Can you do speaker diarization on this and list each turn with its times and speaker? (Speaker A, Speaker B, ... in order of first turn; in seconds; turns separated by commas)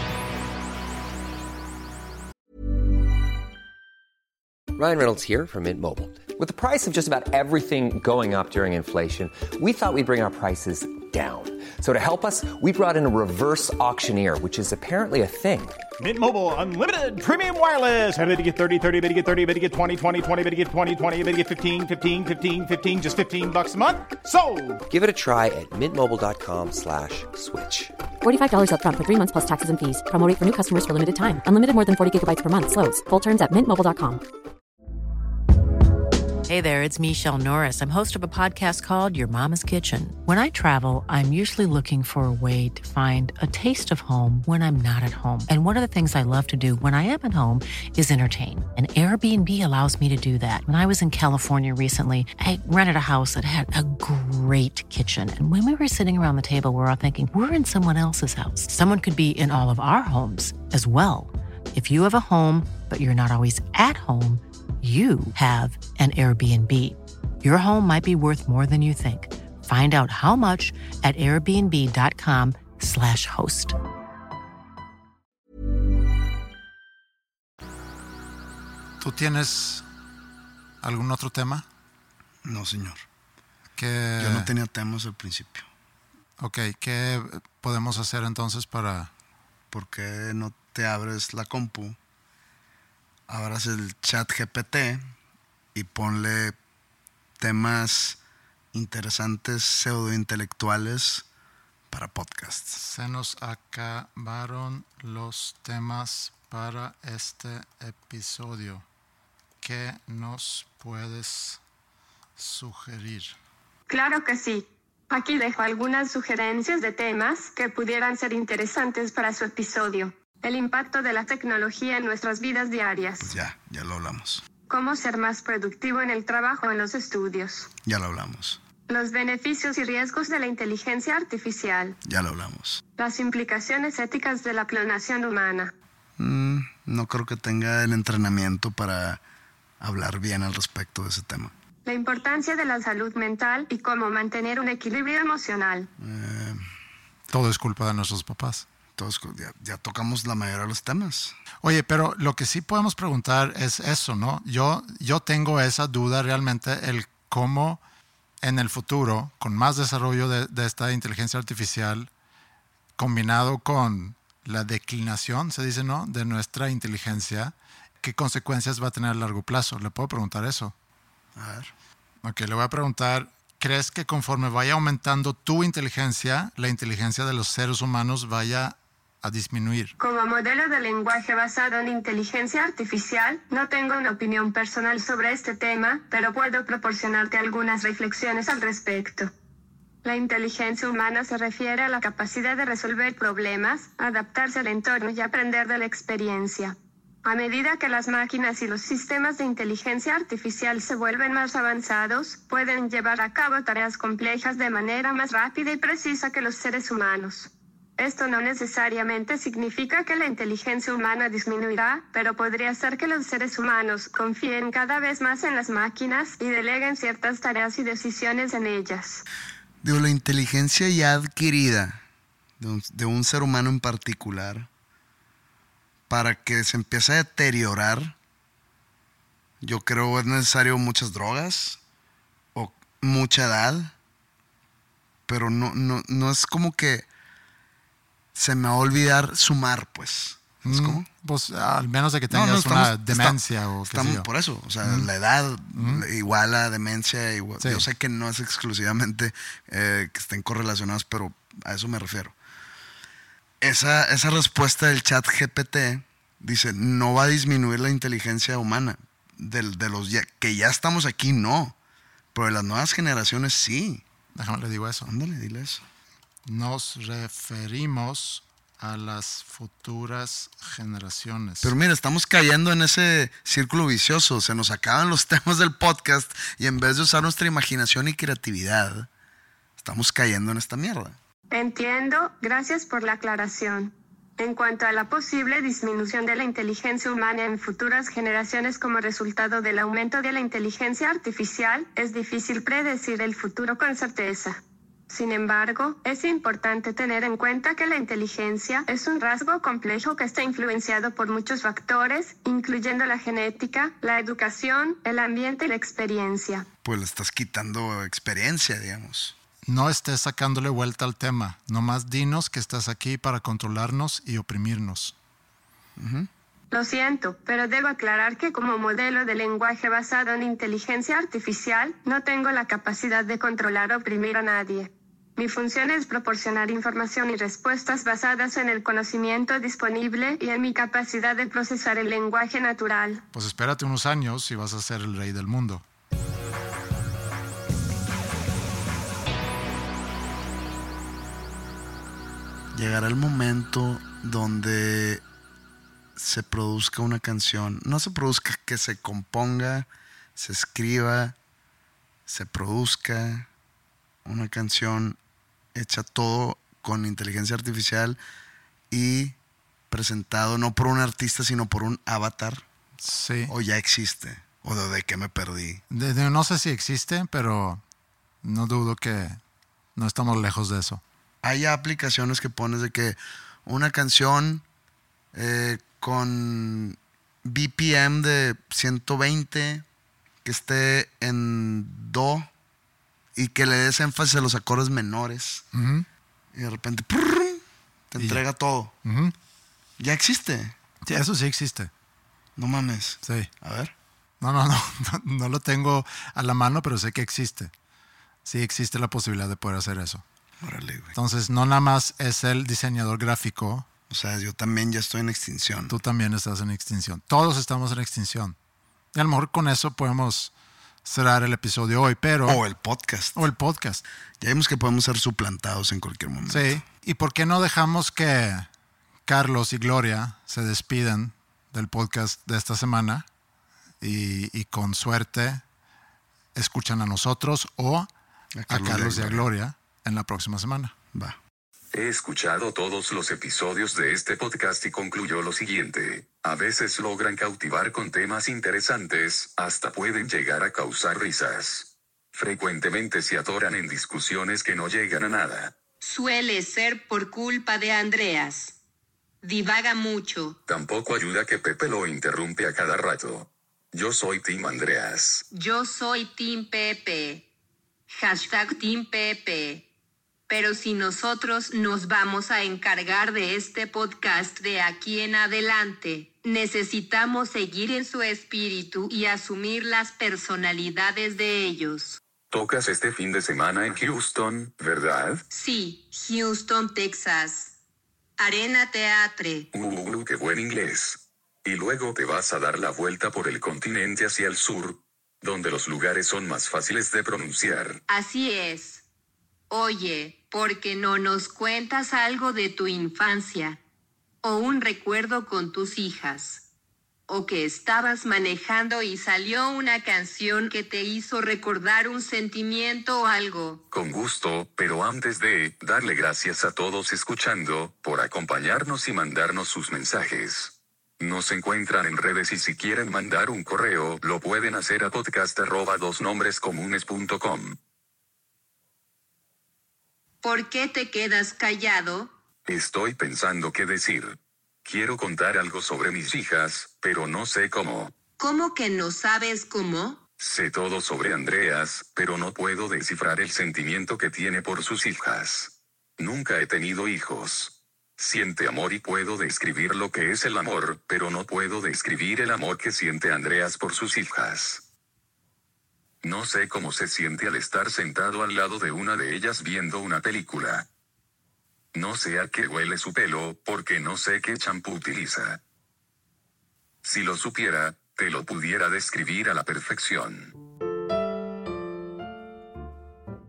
Speaker A: 4.7-15.9, Speaker B: 16.0-24.8, Speaker A: 24.9-27.9, Speaker C: 28.2-34.2, Speaker D: 36.5-73.8, Speaker E: 79.0-79.8, Speaker E: 80.8-81.7, Speaker F: 82.4-83.0, Speaker E: 83.8-84.5, Speaker F: 84.2-85.7, Speaker E: 86.4-89.1, Speaker F: 89.7-92.0, Speaker F: 93.3-95.1, Speaker F: 95.8-96.6, Speaker F: 97.4-98.2, Speaker F: 98.7-101.3, Speaker F: 101.9-102.8, Speaker E: 102.8-108.8, Speaker E: 109.6-111.6, Speaker E: 112.4-113.4, Speaker G: 113.9-123.3, Speaker F: 123.2-124.4, Speaker G: 124.7-127.7, Speaker F: 127.8-128.6, Speaker G: 128.9-132.0, Speaker F: 132.1-132.8, Speaker G: 133.0-135.7, Speaker F: 136.2-139.2, Speaker F: 139.8-141.5, Speaker G: 141.8-145.9, Speaker F: 146.0-146.6, Speaker E: 147.3-148.7, Speaker F: 149.0-151.3, Speaker E: 151.6-157.8, Speaker E: 158.4-162.1, Speaker E: 163.0-170.7, Speaker F: 171.3-171.7, Speaker E: 172.2-179.9, Speaker G: 180.0-189.3, Speaker G: 190.0-219.2, Speaker F: 219.8-222.0, Speaker F: 222.6-224.7, Speaker F: 226.1-228.2, Speaker F: 229.6-231.8, Speaker F: 232.6-233.9, Speaker F: 235.3-237.1, Speaker F: 238.3-241.1, Speaker E: 240.7-244.3, Speaker F: 242.3-252.3, Speaker E: 244.8-245.1, Speaker E: 245.7-246.1, Speaker E: 247.6-247.9, Speaker F: 253.6-261.8, Speaker F: 262.3-264.0, Speaker E: 264.4-265.1, Speaker F: 265.1-265.8, Speaker E: 266.5-271.8, Speaker F: 271.6-279.1, Speaker F: 279.8-281.2, Speaker G: 281.5-306.7, Speaker F: 306.8-309.4, Speaker E: 309.7-315.1, Speaker F: 316.0-316.3, Speaker G: 316.7-333.2, Speaker E: 333.3-335.8, Speaker F: 342.7-345.2, Speaker F: 346.2-351.4, Speaker F: 352.3-353.5, Speaker F: 354.2-355.2, Speaker F: 355.8-358.2, Speaker F: 358.9-359.4, Speaker F: 359.9-362.6, Speaker E: 363.0-363.5, Speaker F: 363.5-365.8, Speaker E: 365.9-367.8, Speaker E: 368.4-369.4, Speaker E: 370.0-371.0, Speaker F: 371.4-374.6, Speaker F: 375.3-379.9, Speaker F: 380.4-382.5, Speaker F: 383.4-385.6, Speaker E: 385.7-386.1, Speaker F: 386.5-388.9, Speaker E: 389.0-389.3, Speaker F: 390.0-390.8, Speaker E: 391.1-391.9, Speaker F: 392.6-393.9, Speaker E: 393.2-393.5, Speaker E: 394.4-397.7, Speaker E: 398.4-400.2, Speaker F: 400.6-401.1, Speaker E: 401.1-403.9, Speaker F: 404.1-405.9, Speaker E: 405.9-408.6, Speaker E: 409.1-410.5, Speaker E: 411.1-412.6, Speaker F: 412.5-413.4, Speaker E: 413.4-414.0, Speaker F: 414.4-416.8, Speaker E: 416.5-418.7, Speaker E: 419.3-423.3, Speaker E: 424.0-425.6, Speaker E: 426.6-428.1, Speaker F: 428.6-429.5, Speaker E: 428.7-430.9, Speaker H: 431.9-445.8, Speaker I: 446.0-448.8, Speaker I: 449.4-450.6, Speaker H: 450.7-455.4, Speaker I: 455.5-457.5, Speaker I: 458.1-459.9, Speaker I: 460.5-472.2, Speaker H: 472.5-475.4, Speaker I: 475.5-477.7, Speaker I: 478.4-479.7, Speaker H: 479.7-488.0, Speaker I: 488.1-489.0, Speaker I: 489.7-493.8, Speaker I: 494.4-496.6, Speaker I: 497.3-503.8, Speaker H: 503.9-517.8, Speaker I: 520.4-522.3, Speaker H: 522.7-528.1, Speaker I: 528.4-530.2, Speaker H: 530.4-544.8, Speaker H: 546.2-550.9, Speaker H: 551.9-555.6, Speaker H: 557.0-560.5